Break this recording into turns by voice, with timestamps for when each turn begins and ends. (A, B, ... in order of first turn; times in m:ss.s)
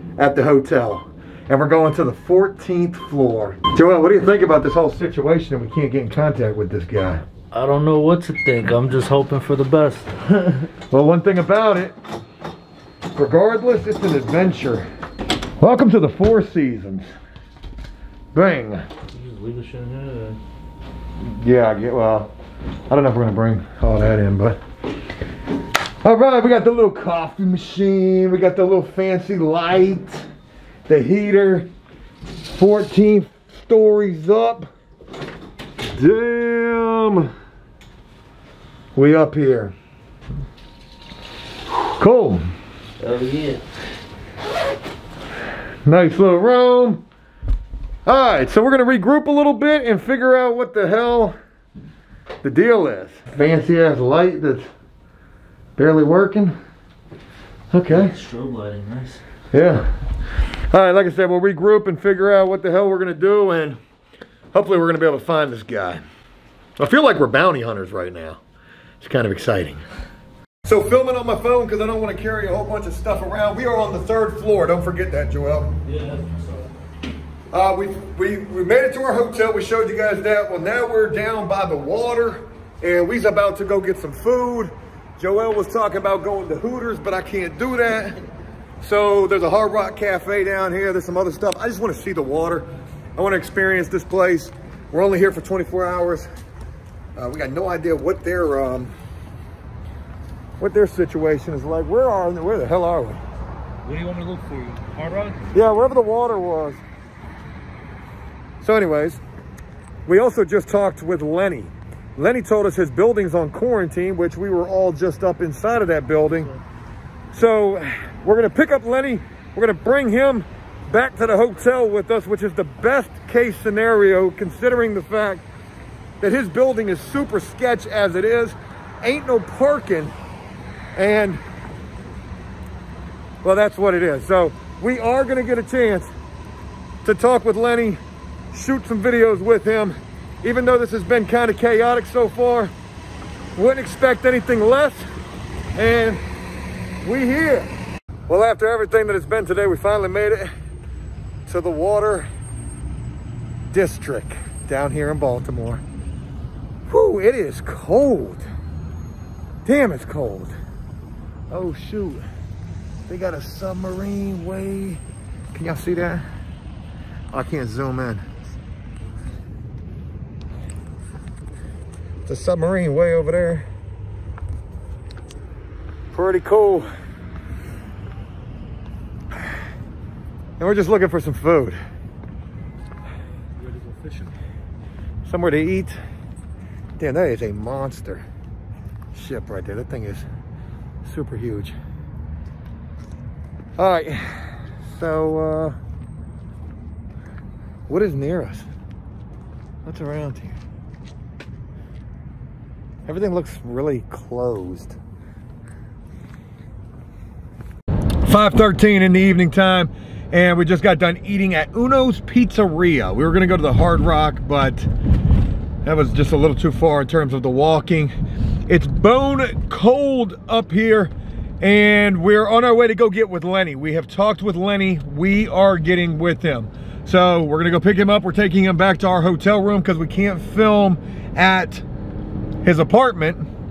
0:00.2-0:07.2 A
0:07.5-0:10.7 B
0:10.9-0:12.0 A
0:13.1-0:14.9 A
0:15.6-0:17.1 A
0:18.3-0:18.8 A
0:19.1-0:20.4 B
0:21.2-0:22.3 A
0:22.9-0:24.6 A
0:26.0-0:30.3 A
0:30.9-0:31.7 A
0:32.4-0:34.7 A
0:35.9-0:37.3 A
0:38.9-0:39.7 A
0:42.0-0:42.5 A
0:43.0-0:43.6 B
0:45.8-0:47.0 A
0:48.1-0:51.4 A
0:52.4-0:54.7 A
0:55.8-0:56.6 A
0:57.7-0:58.2 A
0:57.9-0:59.2 B
0:59.5-0:59.9 A
1:00.7-1:03.8 A
1:04.5-1:06.0 A
1:06.8-1:08.4 A
1:09.0-1:09.8 A
1:10.6-1:15.8 A
1:15.8-1:16.7 B
1:17.5-1:28.2 A
1:28.8-1:36.3 A
1:37.2-1:38.9 A
1:40.6-1:43.2 A
1:43.8-1:45.5 B
1:45.5-1:46.8 A
1:48.6-1:49.2 A
1:50.1-1:56.5 A
1:57.3-2:05.4 A
2:06.2-2:10.1 A
2:11.0-2:11.4 A
2:13.4-2:16.1 A
2:17.0-2:18.0 A
2:18.5-2:22.7 A
2:23.6-2:25.1 A
2:25.8-2:26.2 A
2:27.0-2:27.7 A
2:28.3-2:30.5 A
2:31.5-2:32.3 A
2:33.7-2:35.8 A
2:36.9-2:38.5 A
2:39.6-2:40.6 A
2:41.5-2:42.3 A
2:43.1-2:45.0 A
2:45.5-2:46.2 A
2:47.3-2:48.2 A
2:52.2-2:53.7 A
2:56.1-2:56.9 A
3:00.6-3:01.8 A
3:05.2-3:06.0 A
3:07.0-3:08.3 A
3:09.1-3:10.3 A
3:11.0-3:11.8 A
3:13.8-3:15.8 A
3:17.9-3:18.7 A
3:19.8-3:20.6 A
3:23.1-3:25.0 A
3:28.2-3:34.9 A
3:35.8-3:38.1 A
3:38.7-3:51.8 A
3:52.6-3:53.4 A